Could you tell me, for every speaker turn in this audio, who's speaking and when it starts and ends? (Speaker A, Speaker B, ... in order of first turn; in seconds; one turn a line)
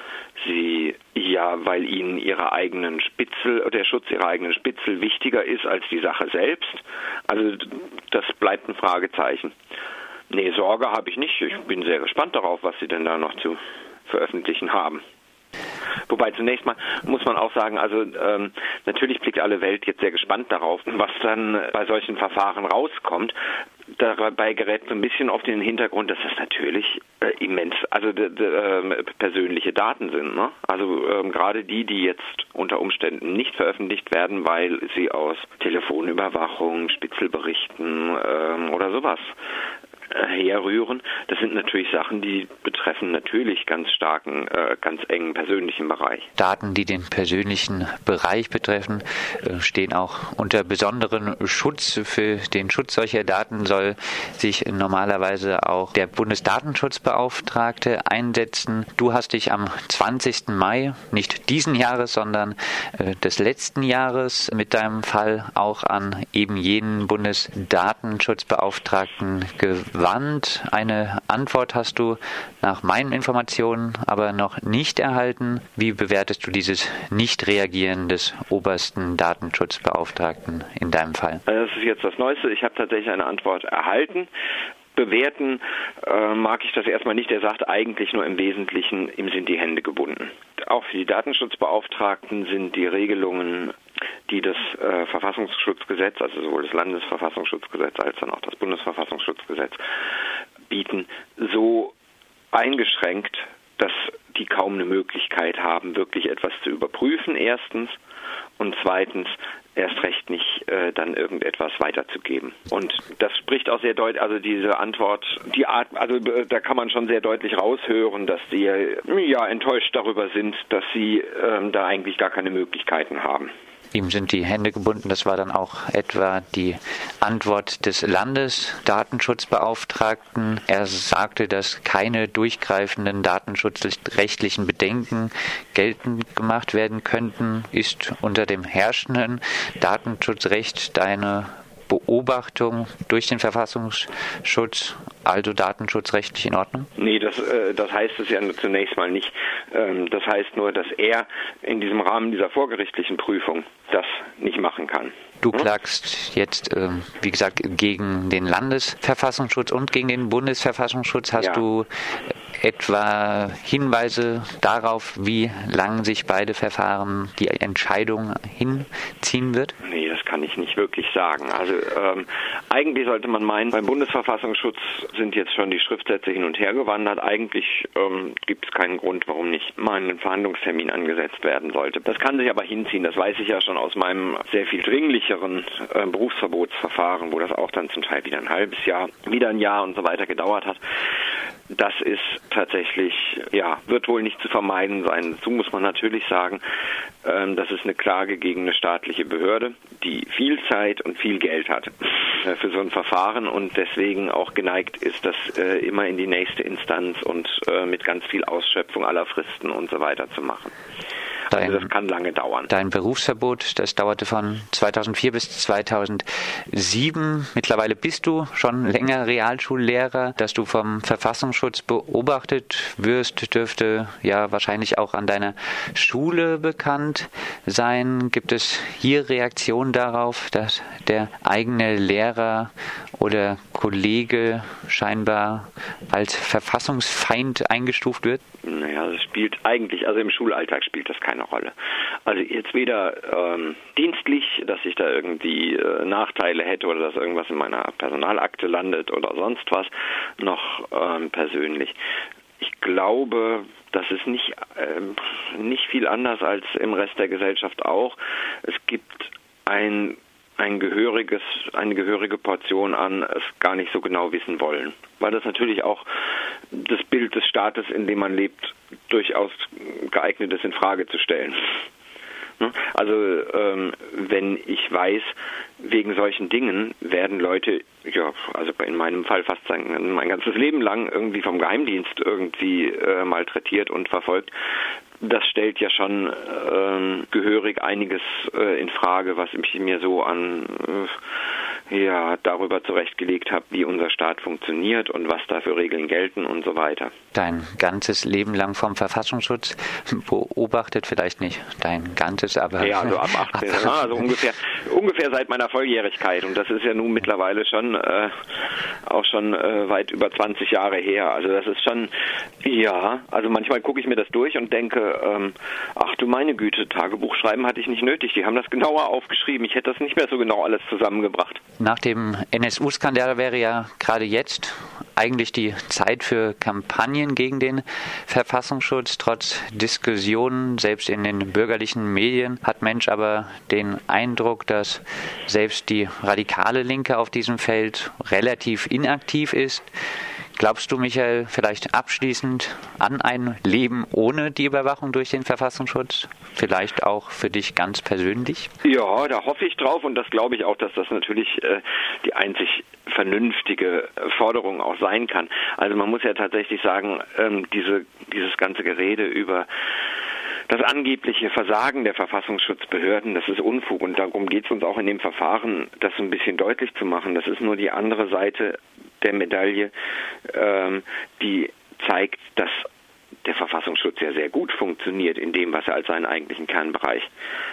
Speaker A: 0.4-9.5
Speaker A: 10.3-15.0
Speaker A: 16.1-23.4
Speaker A: 24.0-39.3
Speaker A: 40.1-46.3
Speaker B: 46.4-81.4
Speaker A: 81.5-84.3
Speaker A: 85.0-93.7
Speaker A: 94.3-99.8
Speaker A: 100.7-101.9
Speaker A: 102.5-108.0
Speaker A: 108.6-123.5
Speaker B: 123.9-146.9
Speaker A: 147.0-155.7
Speaker B: 155.4-161.9
Speaker A: 161.4-161.7
Speaker B: 162.6-169.7
Speaker A: 169.8-190.8
Speaker A: 191.7-196.6
Speaker A: 197.2-210.7
Speaker A: 211.5-212.7
Speaker B: 211.5-211.9
Speaker B: 212.7-238.4
Speaker A: 238.6-241.7
Speaker A: 242.3-252.0
Speaker A: 252.6-266.1
Speaker A: 266.7-271.8
Speaker A: 272.6-284.5
Speaker A: 285.2-291.1
Speaker A: 291.9-297.1
Speaker B: 297.3-304.2
Speaker A: 302.8-308.3
Speaker A: 309.1-312.1
Speaker A: 312.6-321.6
Speaker B: 321.8-339.9
Speaker B: 340.6-348.7
Speaker A: 348.8-359.7
Speaker A: 360.7-369.9
Speaker A: 370.5-372.9
Speaker A: 373.4-377.3